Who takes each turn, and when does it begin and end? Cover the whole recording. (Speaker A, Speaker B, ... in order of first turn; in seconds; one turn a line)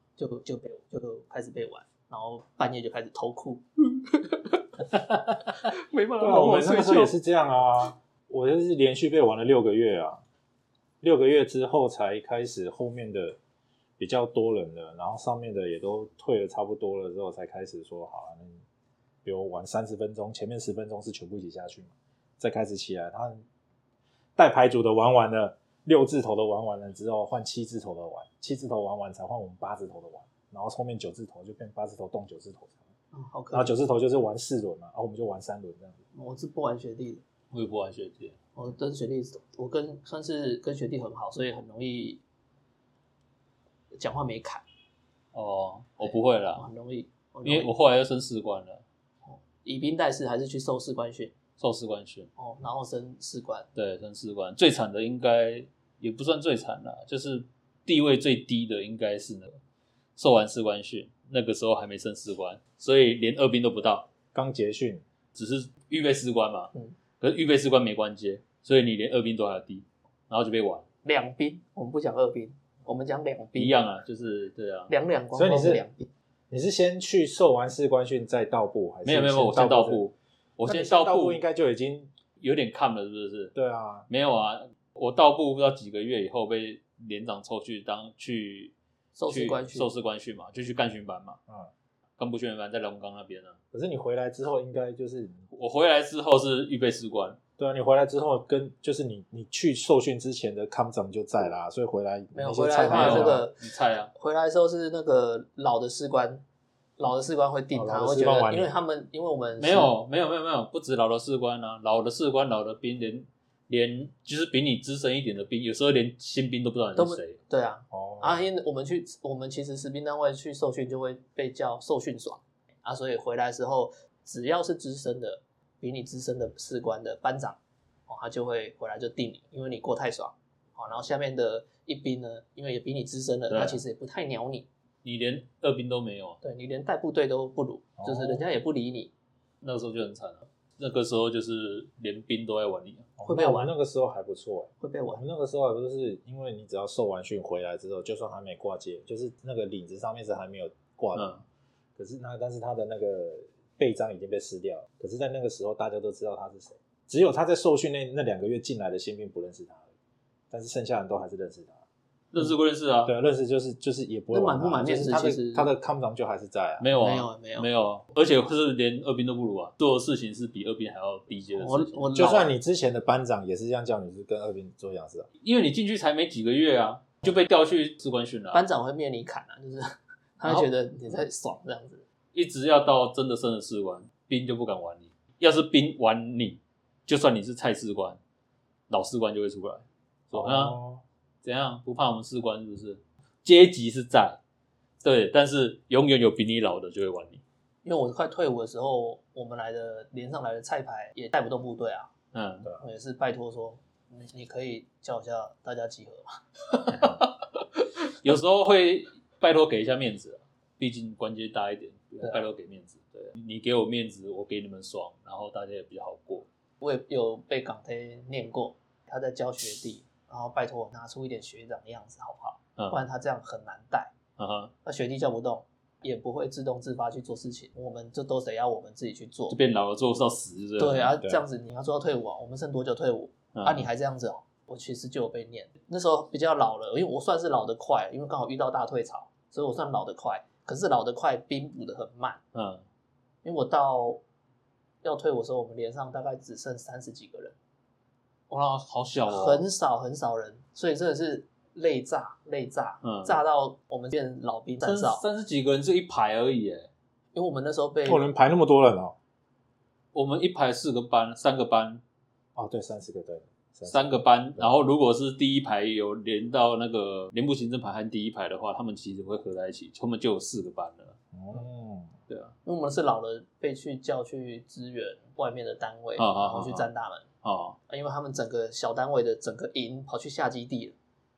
Speaker A: 0.2-4.8
Speaker A: 5.5-7.1
Speaker B: 6.2-10.2
Speaker B: 11.0-13.4
Speaker B: 14.0-18.6
Speaker B: 19.2-23.4
Speaker B: 24.4-32.8
Speaker A: 33.1-33.7
Speaker B: 33.5-36.0
Speaker A: 36.1-37.2
Speaker C: 37.5-38.4
Speaker A: 38.5-42.2
Speaker A: 43.9-44.6
Speaker C: 45.3-46.7
Speaker A: 46.0-47.7
Speaker C: 47.4-48.8
Speaker A: 49.2-51.3
Speaker C: 51.6-52.3
Speaker A: 52.4-53.7
Speaker C: 53.8-59.6
Speaker C: 60.2-64.1
Speaker B: 64.3-65.0
Speaker C: 65.3-70.8
Speaker A: 71.0-73.8
Speaker C: 73.5-74.9
Speaker A: 74.9-76.1
Speaker B: 75.3-75.8
Speaker B: 76.5-80.0
Speaker C: 79.0-81.4
Speaker B: 80.6-82.1
Speaker C: 82.4-83.5
Speaker B: 83.5-84.1
Speaker C: 84.1-88.7
Speaker A: 89.2-89.9
Speaker C: 89.3-91.4
Speaker C: 92.2-93.6
Speaker B: 93.7-95.4
Speaker C: 95.5-97.4
Speaker B: 97.6-103.5
Speaker A: 102.3-103.6
Speaker C: 102.7-104.1
Speaker A: 104.1-106.4
Speaker A: 107.0-109.9
Speaker B: 107.7-108.7
Speaker C: 109.6-117.4
Speaker A: 117.0-134.7
Speaker B: 117.9-118.5
Speaker C: 133.5-133.8
Speaker C: 135.0-136.4
Speaker A: 136.4-139.1
Speaker B: 138.0-138.4
Speaker C: 139.6-143.1
Speaker B: 143.2-151.4
Speaker A: 143.2-143.7
Speaker A: 144.8-145.2
Speaker C: 151.1-151.4
Speaker B: 151.9-159.9
Speaker B: 160.5-161.8
Speaker C: 162.3-163.1
Speaker B: 163.0-166.9
Speaker A: 164.3-165.7
Speaker C: 166.8-172.2
Speaker A: 166.9-167.7
Speaker A: 171.5-172.5
Speaker B: 172.1-175.3
Speaker C: 175.4-178.6
Speaker A: 178.5-182.0
Speaker C: 182.3-188.2
Speaker C: 188.9-190.8
Speaker B: 190.3-191.0
Speaker C: 191.4-194.4
Speaker C: 195.0-197.4
Speaker A: 197.8-202.1
Speaker C: 202.3-202.7
Speaker A: 202.8-207.3
Speaker C: 208.1-216.5
Speaker A: 216.8-224.1
Speaker C: 224.4-224.7
Speaker A: 224.8-229.6
Speaker C: 229.5-231.2
Speaker A: 230.8-242.4
Speaker C: 233.5-233.9
Speaker C: 242.5-242.8
Speaker A: 243.4-244.2
Speaker A: 245.0-247.6
Speaker C: 248.5-249.6
Speaker A: 249.3-255.2
Speaker C: 253.0-253.4
Speaker C: 254.8-256.9
Speaker A: 257.3-258.3
Speaker B: 258.1-259.1
Speaker C: 260.1-262.0
Speaker B: 262.5-264.7
Speaker C: 263.9-271.2
Speaker B: 271.3-272.1
Speaker C: 272.3-272.5
Speaker A: 272.6-277.3
Speaker C: 276.2-276.9
Speaker C: 277.4-277.8
Speaker A: 277.9-280.9